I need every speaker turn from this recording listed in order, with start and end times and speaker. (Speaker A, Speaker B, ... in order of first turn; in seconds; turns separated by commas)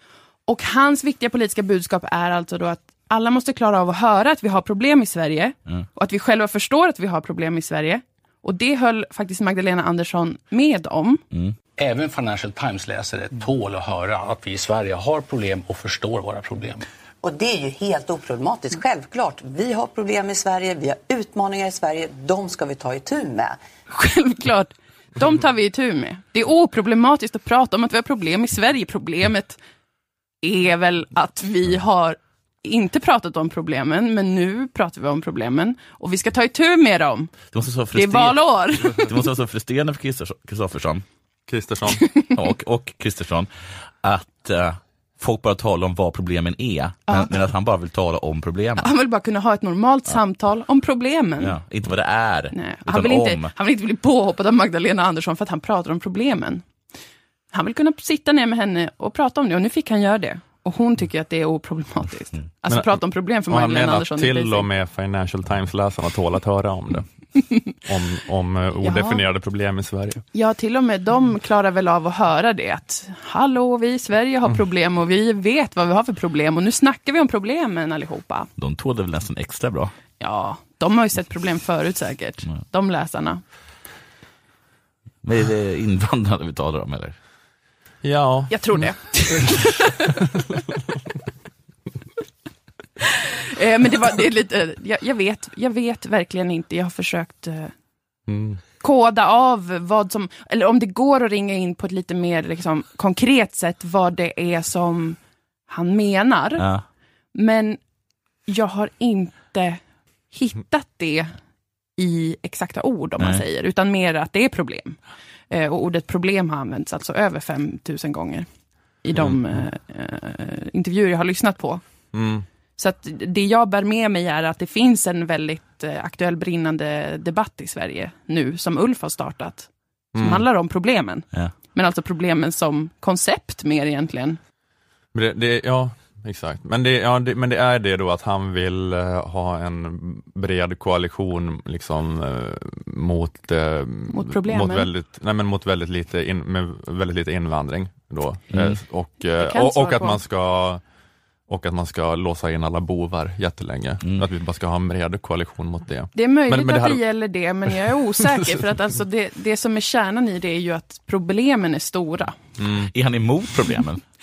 Speaker A: 0.5-11.2, Speaker B: 11.8-16.8, Speaker C: 17.2-23.6, Speaker A: 23.9-29.6, Speaker A: 30.4-37.3, Speaker D: 37.5-41.0, Speaker A: 37.9-39.1, Speaker E: 41.5-42.0, Speaker D: 42.3-43.5, Speaker D: 44.0-48.9, Speaker A: 47.1-47.4, Speaker A: 48.8-51.5, Speaker D: 51.4-53.5, Speaker A: 52.5-56.6, Speaker A: 57.5-64.7, Speaker E: 62.7-67.1, Speaker E: 67.7-70.2, Speaker A: 68.8-69.2, Speaker A: 70.3-78.5, Speaker D: 78.6-79.9, Speaker A: 80.2-83.4, Speaker D: 85.2-87.2, Speaker E: 88.0-88.9, Speaker A: 88.5-90.2, Speaker A: 93.5-97.7, Speaker E: 98.3-98.6, Speaker A: 98.8-106.6, Speaker D: 106.6-106.8, Speaker A: 107.3-107.8, Speaker A: 108.5-111.3, Speaker A: 112.0-115.0, Speaker A: 115.5-118.5, Speaker A: 119.0-121.8, Speaker E: 122.1-122.4, Speaker A: 122.8-134.4, Speaker E: 130.1-130.4, Speaker E: 135.1-150.8, Speaker A: 144.1-144.9, Speaker D: 148.5-148.8, Speaker A: 149.4-150.2, Speaker E: 151.5-157.0, Speaker A: 156.1-162.3, Speaker E: 162.6-162.9, Speaker D: 162.9-164.0